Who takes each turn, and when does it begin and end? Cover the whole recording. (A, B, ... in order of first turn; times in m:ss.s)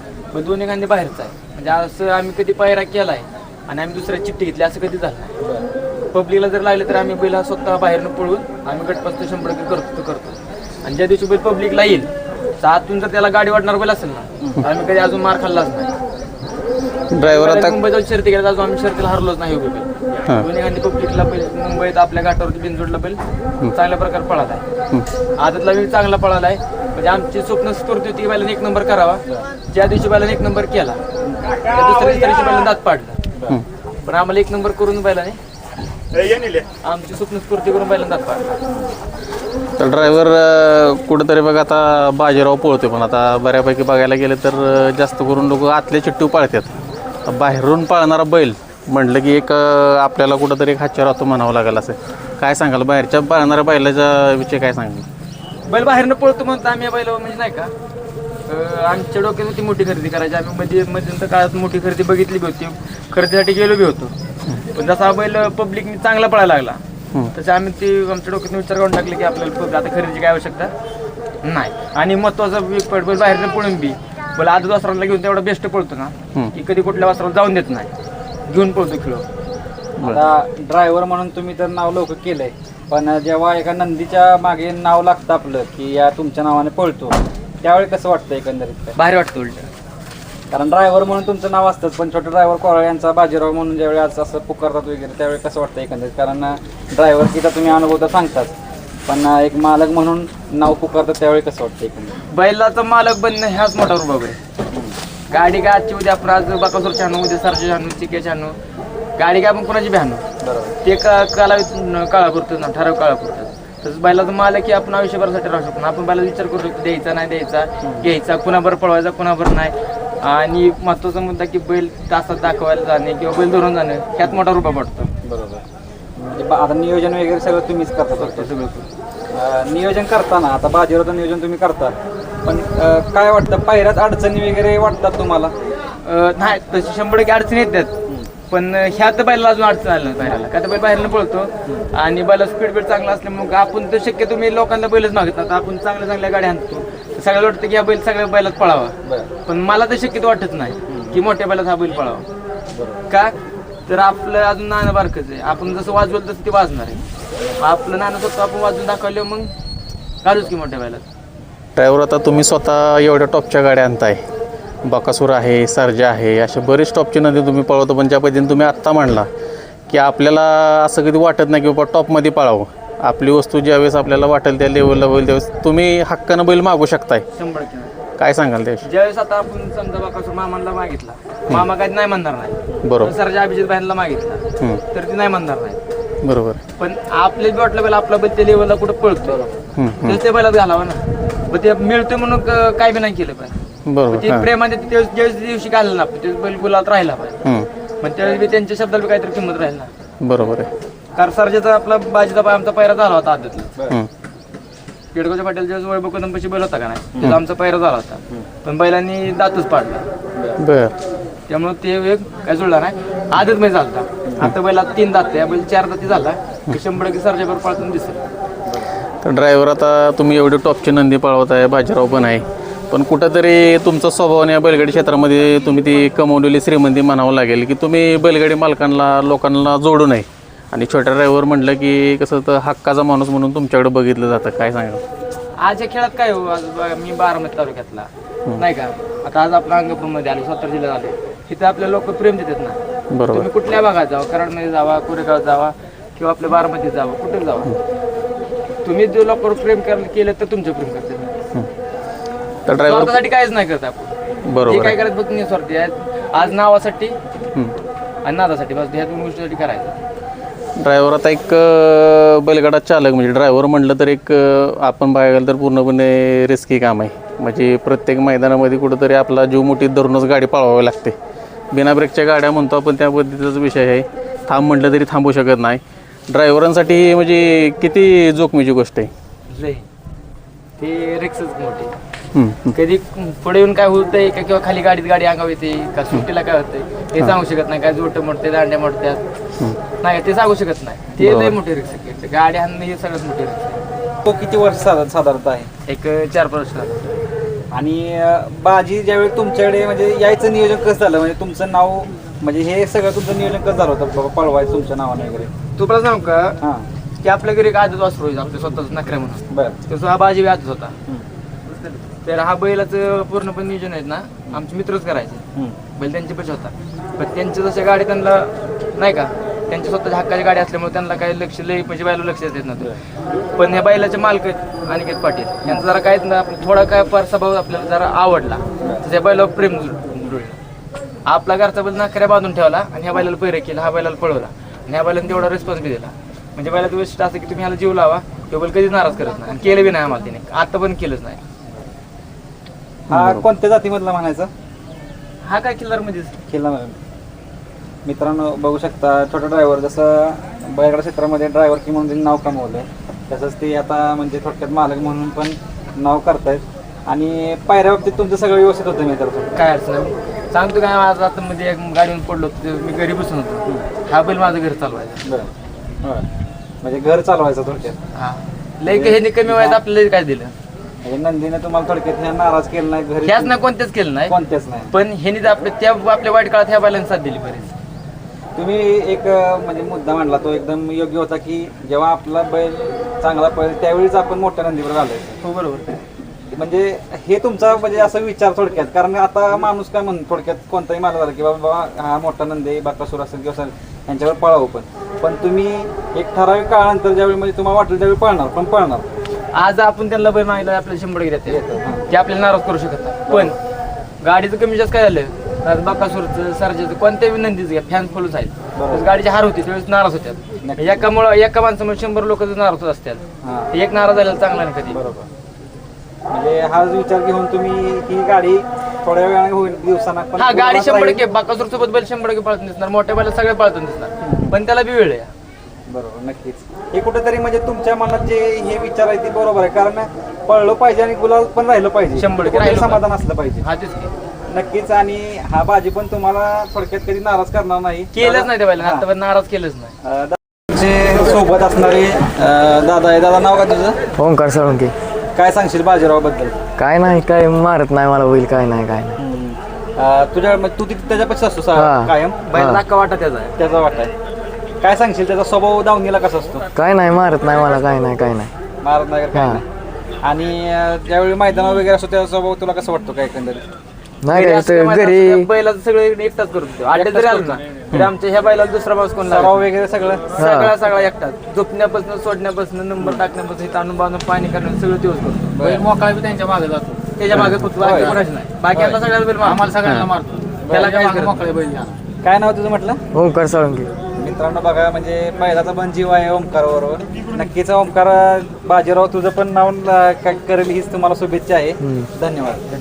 0:00.3-0:05.3 A
0:05.4-0:05.7 B
0:06.1-0:15.9 A
0:17.1-0:17.8 C
0:17.2-0:23.2 A
0:23.7-0:24.6 A
0:25.4-0:31.0 A
0:31.2-0:31.6 B
0:31.6-0:33.2 A
0:33.3-0:33.6 B
0:34.0-0:35.4 A
0:36.8-0:38.6 A
0:38.7-0:39.0 B
0:39.8-0:46.7 C
0:47.2-0:55.0 C
0:55.7-0:57.7 A
0:58.5-1:04.1 A
1:04.7-1:06.8 A
1:07.3-1:10.7 A
1:11.4-1:17.9 A
1:18.5-1:19.2 A
1:20.0-1:29.0 B
1:29.0-1:29.7 A
1:30.5-1:38.5 B
1:39.1-1:42.2 B
1:42.3-1:44.4 A
1:44.7-1:45.0 B
1:45.3-1:48.5 A
1:49.2-1:50.2 A
1:50.4-1:50.7 B
1:50.8-2:05.1 A
1:57.8-1:58.1 B
2:05.2-2:05.6 B
2:06.2-2:08.5 B
2:08.2-2:08.9 A
2:09.3-2:15.5 B
2:16.0-2:17.9 A
2:18.5-2:32.2 A
2:30.9-2:31.2 B
2:32.7-2:33.0 B
2:33.1-2:33.3 A
2:33.9-2:37.0 A
2:37.6-2:39.5 A
2:40.2-2:41.0 A
2:41.8-2:44.2 C
2:44.8-2:49.3 C
2:49.9-2:57.2 C
2:57.4-2:58.0 A
2:58.2-2:58.8 C
2:58.8-3:05.8 A
3:02.8-3:03.1 C
3:06.2-3:06.6 C
3:06.8-3:09.5 A
3:09.8-3:10.2 C
3:10.0-3:13.6 A
3:13.9-3:14.4 C
3:14.1-3:17.4 A
3:18.0-3:19.9 A
3:20.2-3:20.7 C
3:21.2-3:23.8 A
3:25.1-3:30.0 A
3:30.4-3:30.6 B
3:30.6-3:30.9 C
3:31.5-3:38.2 A
3:34.2-3:34.5 B
3:38.6-3:38.9 B
3:39.2-3:55.0 C
3:55.6-4:02.8 A
4:03.1-4:03.5 C
4:03.3-4:07.7 A
4:08.8-4:11.3 A
4:12.7-4:13.2 C
4:12.8-4:14.1 A
4:14.4-4:15.0 C
4:14.6-4:17.2 A
4:18.2-4:20.0 A
4:20.8-4:31.2 C
4:31.7-4:39.1 C
4:39.5-4:39.8 A
4:40.8-4:41.9 A
4:42.3-4:42.7 C
4:42.7-4:49.2 A
4:50.0-4:53.8 A
4:51.2-4:51.6 C
4:54.2-4:55.7 B
4:55.9-4:57.1 A
4:57.7-5:05.5 B
5:05.8-5:06.6 A
5:06.6-5:06.8 B
5:07.2-5:10.9 A
5:09.5-5:09.8 B
5:12.2-5:15.4 A
5:15.9-5:22.9 A
5:23.6-5:30.6 A
5:31.2-5:41.4 A
5:43.1-5:44.5 B
5:43.1-5:43.4 C
5:45.4-5:46.3 A
5:46.5-5:47.0 B
5:48.0-5:59.6 B
5:59.5-6:05.2 A
6:05.2-6:05.5 B
6:06.8-6:08.0 B
6:08.1-6:10.5 A
6:08.8-6:09.8 B
6:11.0-6:13.6 B
6:13.2-6:14.3 A
6:14.3-6:14.9 B
6:14.9-6:17.7 A
6:18.6-6:25.4 B
6:25.4-6:25.9 A
6:26.6-6:39.0 B
6:39.5-6:43.6 A
6:41.5-6:42.1 B
6:43.3-6:43.6 B
6:44.2-6:55.0 A
6:48.8-6:49.0 B
6:50.6-6:51.1 B
6:53.4-6:53.7 B
6:54.9-6:55.3 B
6:56.3-7:01.2 B
7:00.4-7:05.3 A
7:04.2-7:04.6 B
7:05.9-7:13.6 B
7:12.2-7:13.0 A
7:13.6-7:14.1 A
7:14.5-7:19.0 B
7:18.1-7:19.9 A
7:20.0-7:24.0 B
7:24.2-7:24.9 D
7:25.3-7:26.6 B
7:26.8-7:29.2 D
7:29.2-7:32.5 B
7:31.8-7:32.8 D
7:32.5-7:33.5 A
7:33.6-7:34.1 B
7:34.8-7:36.6 B
7:36.7-7:38.5 D
7:38.8-7:39.6 B
7:39.3-7:39.6 D
7:40.2-7:43.6 B
7:44.2-7:45.5 D
7:44.3-7:49.6 A
7:46.9-7:47.6 B
7:49.3-7:50.3 B
7:50.4-7:55.5 A
7:50.4-7:50.7 D
7:55.5-7:55.8 B
7:55.6-7:57.1 E
7:57.2-7:59.7 A
7:57.8-7:59.0 B
7:59.4-8:02.0 E
7:59.8-8:00.1 C
8:00.6-8:00.9 B
8:00.7-8:01.4 A
8:02.2-8:03.0 B
8:03.1-8:03.9 D
8:04.2-8:12.6 B
8:11.8-8:12.1 D